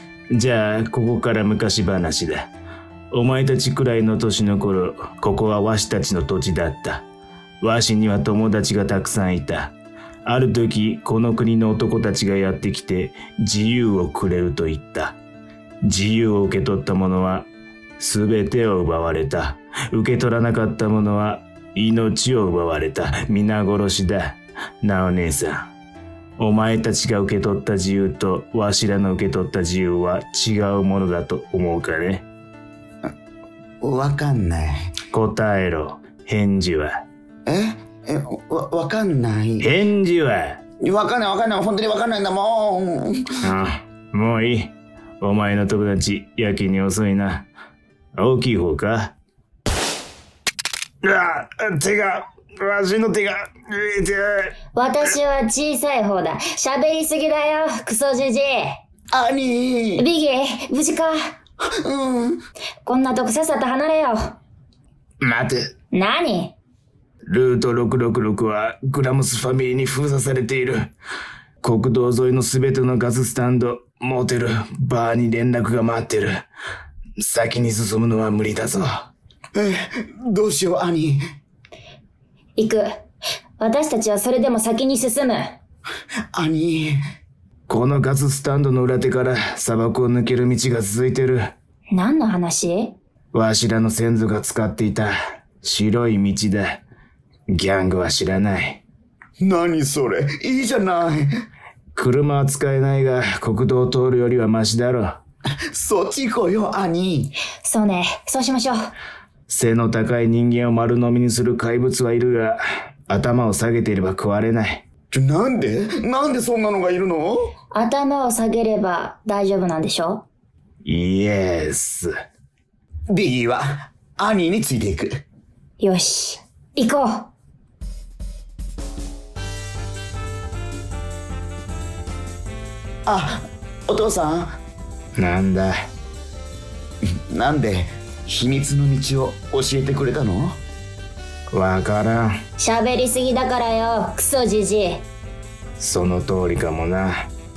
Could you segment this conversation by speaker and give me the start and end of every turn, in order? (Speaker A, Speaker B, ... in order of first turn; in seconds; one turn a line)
Speaker A: 0.3-2.5
Speaker A: 3.1-7.0
Speaker A: 7.6-9.7
Speaker A: 10.2-15.2
Speaker A: 15.8-17.5
Speaker A: 18.0-25.7
Speaker A: 26.4-32.2
Speaker B: 33.8-34.9
Speaker A: 35.1-37.0
Speaker B: 37.5-39.7
Speaker A: 39.6-40.6
Speaker B: 40.8-43.2
Speaker A: 43.4-47.5
Speaker A: 48.2-49.1
Speaker A: 51.0-54.5
Speaker C: 54.7-58.8
Speaker B: 59.1-60.1
Speaker C: 60.0-61.2
Speaker B: 61.7-62.4
Speaker C: 62.9-64.4
Speaker A: 65.2-65.7
Speaker C: 65.9-66.6
Speaker A: 67.3-70.9
Speaker A: 71.6-76.4
Speaker A: 77.2-79.1
Speaker B: 79.5-81.2
Speaker C: 82.6-82.9
Speaker C: 83.6-85.6
Speaker B: 86.3-87.0
Speaker A: 87.7-91.5
Speaker C: 91.9-93.0
Speaker A: 93.3-96.8
Speaker A: 97.5-98.8
Speaker B: 99.4-101.3
Speaker A: 102.0-105.2
Speaker B: 105.7-107.3
Speaker C: 107.6-108.9
Speaker A: 109.5-114.8
Speaker B: 115.1-117.5
Speaker C: 117.7-120.3
Speaker A: 120.8-122.1
Speaker B: 123.1-125.2
Speaker C: 125.8-127.3
Speaker B: 133.1-134.6
Speaker A: 135.2-135.7
Speaker B: 137.1-140.6
Speaker A: 141.5-142.3
Speaker C: 142.6-145.1
Speaker A: 145.8-147.3